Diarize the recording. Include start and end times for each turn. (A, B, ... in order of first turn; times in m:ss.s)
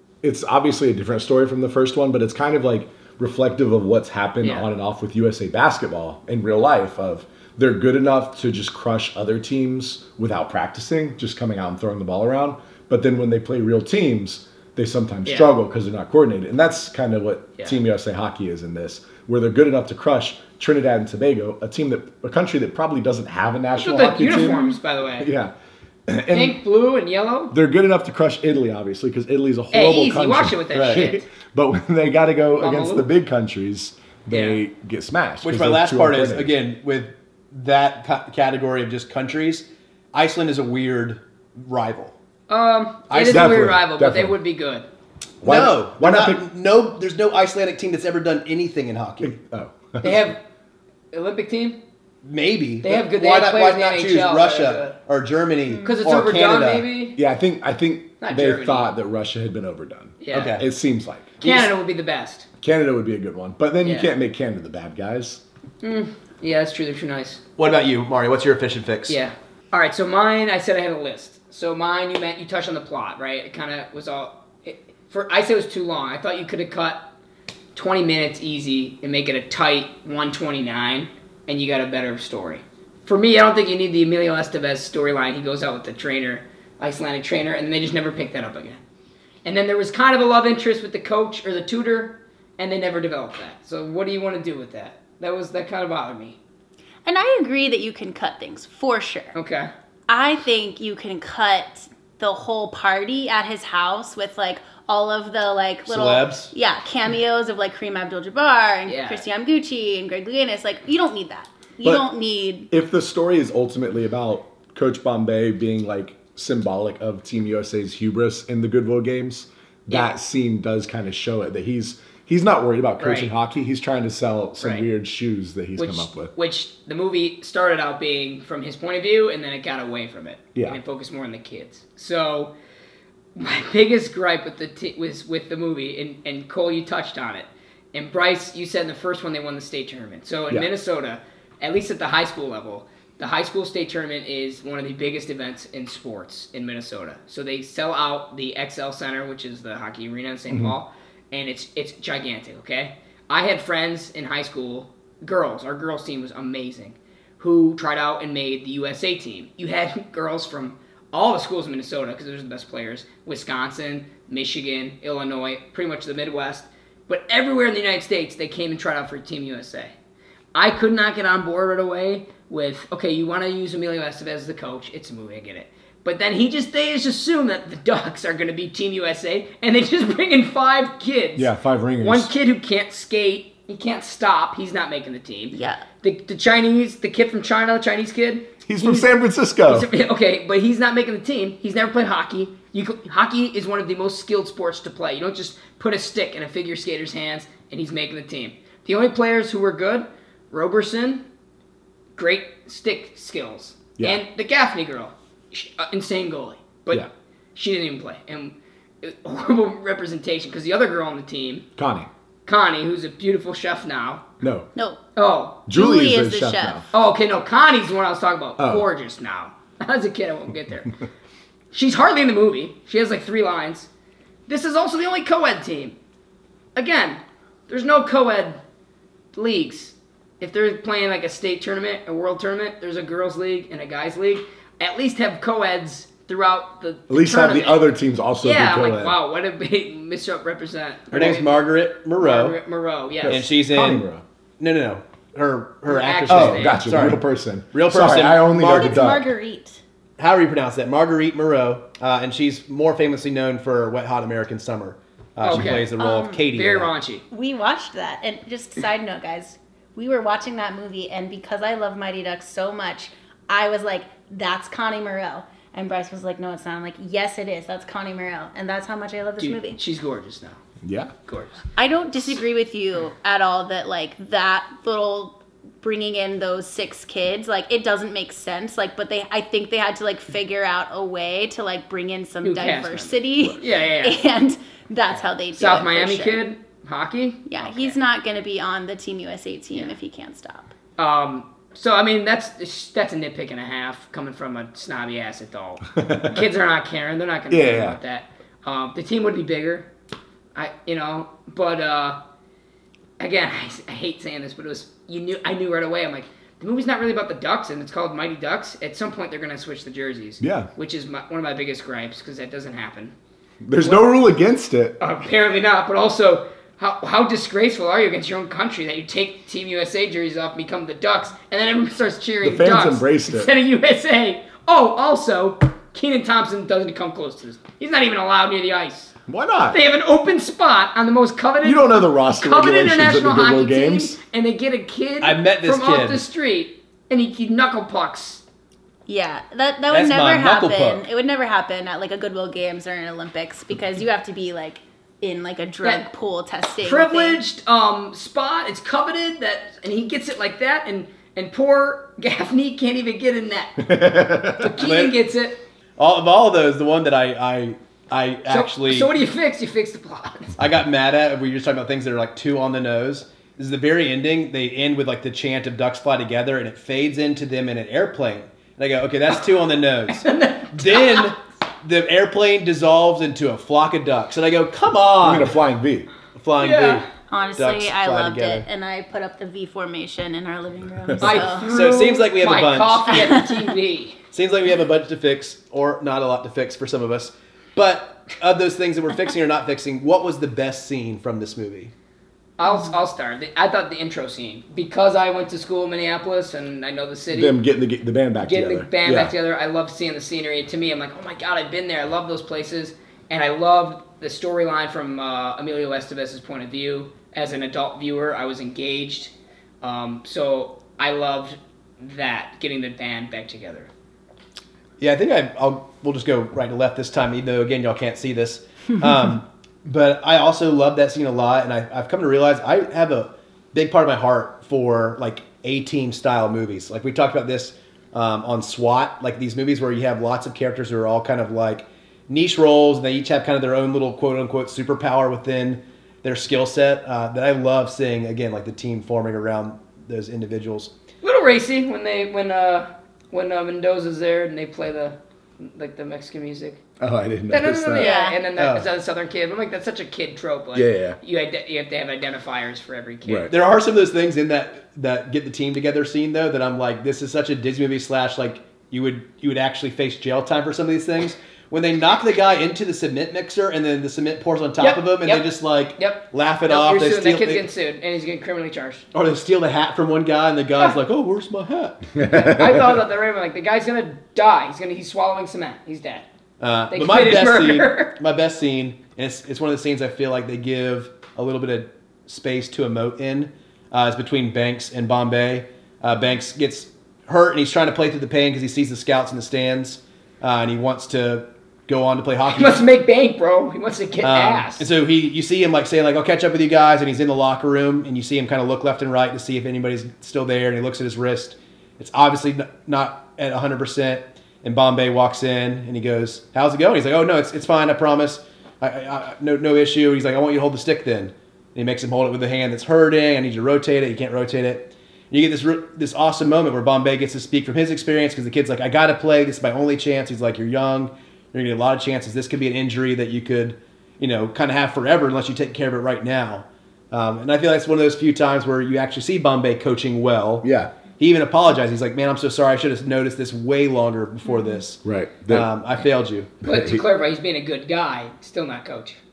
0:00.2-0:25.5 A
0:04.4-0:04.7 B
0:15.3-0:15.5 B
0:23.8-0:25.3 B
0:26.1-0:26.6 A
0:26.3-0:27.5 B
0:27.5-0:36.6 A
0:29.7-0:31.2 B
0:30.7-0:31.1 C
0:32.6-0:33.1 B
0:34.3-0:34.6 B
0:35.4-0:42.1 C
0:42.5-0:44.9 B
0:43.1-0:43.7 C
0:43.3-0:44.4 A
0:45.4-0:46.4 A
0:45.4-0:49.4 C
0:49.2-0:50.3 A
0:50.0-0:50.4 B
0:51.1-0:51.8 B
0:52.2-0:56.9 C
0:52.8-0:55.0 B
0:55.7-0:56.1 D
0:55.8-0:57.2 B
0:57.1-1:01.6 A
0:58.2-0:58.9 B
1:00.2-1:00.6 B
1:00.3-1:00.6 C
1:01.4-1:02.5 B
1:02.6-1:05.4 A
1:03.8-1:04.1 B
1:05.8-1:07.4 B
1:07.6-1:09.2 C
1:09.1-1:17.1 B
1:17.8-1:28.8 B
1:29.4-1:36.4 B
1:37.0-1:39.3 D
1:39.3-1:39.7 B
1:40.1-1:52.7 D
1:45.9-1:46.5 C
1:48.9-1:49.2 B
1:52.7-2:06.3 A
2:03.0-2:03.3 B
2:04.6-2:04.9 B
2:05.8-2:12.5 B
2:13.4-2:49.9 B
2:50.5-3:09.1 B
3:01.4-3:02.3 A
3:05.5-3:05.8 D
3:08.7-3:09.9 A
3:09.6-3:21.2 B
3:22.2-3:31.6 B
3:31.8-3:32.1 A
3:32.4-3:34.2 B
3:34.4-3:34.7 A
3:35.2-3:35.6 B
3:35.7-3:36.8 A
3:35.7-3:36.9 D
3:36.9-3:40.9 B
3:38.6-3:38.9 A
3:41.7-3:43.9 B
3:44.5-3:45.9 B
3:46.8-3:48.6 B
3:49.3-3:57.9 B
3:57.1-3:59.2 A
3:58.4-4:03.4 B
4:01.1-4:02.6 C
4:03.2-4:04.2 A
4:03.3-4:04.0 C
4:04.6-4:09.1 C
4:05.9-4:06.8 B
4:06.3-4:09.3 A
4:08.6-4:09.8 D
4:10.2-4:16.9 C
4:15.4-4:15.9 B
4:16.0-4:16.4 D
4:16.5-4:17.2 B
4:17.3-4:29.8 D
4:29.4-4:30.6 B
4:30.8-4:31.1 A
4:31.3-4:31.6 B
4:31.8-4:46.4 D
4:42.4-4:44.2 B
4:45.6-4:47.9 B
4:47.5-4:50.7 D
4:51.0-4:59.9 B
4:56.0-4:56.4 A
4:57.5-4:58.0 A
5:00.6-5:02.2 B
5:03.2-5:13.1 B
5:10.4-5:10.7 A
5:13.6-5:15.0 A
5:13.8-5:14.2 B
5:15.0-5:29.1 B
5:22.4-5:23.5 A
5:29.3-5:29.8 A
5:29.7-5:38.4 B
5:31.6-5:34.2 A
5:35.2-5:36.2 C
5:39.1-5:47.4 D
5:39.9-5:41.0 C
5:46.8-5:53.9 B
5:53.8-5:54.7 A
5:54.5-5:55.6 B
5:54.8-5:55.2 C
5:56.0-5:59.1 C
5:58.5-6:00.6 B
6:00.6-6:15.6 C
6:10.2-6:11.3 B
6:15.2-6:16.1 A
6:16.4-6:18.6 C
6:16.6-6:17.1 B
6:17.3-6:21.9 D
6:21.1-6:21.4 A
6:21.2-6:24.2 B
6:21.7-6:23.2 C
6:23.1-6:23.6 D
6:24.3-6:31.9 C
6:32.6-6:37.6 B
6:32.6-6:32.9 D
6:37.3-6:39.3 A
6:38.4-6:53.9 B
6:55.0-7:20.9 C
7:21.2-7:26.8 B
7:27.0-7:28.2 A
7:27.5-7:33.5 B
7:28.0-7:28.4 D
7:28.6-7:28.9 C
7:30.8-7:31.2 A
7:33.2-7:33.5 A
7:33.5-7:47.6 C
7:44.8-7:49.1 B
7:49.1-7:52.1 C
7:52.1-7:53.0 A
7:52.3-7:56.3 B
7:56.6-8:12.8 C
7:56.9-7:58.1 B
8:12.5-8:14.9 B
8:14.2-8:50.7 C
8:50.6-8:50.9 A
8:51.2-8:56.5 C
8:55.0-8:55.7 A
8:56.6-8:57.0 A
8:56.6-8:59.2 B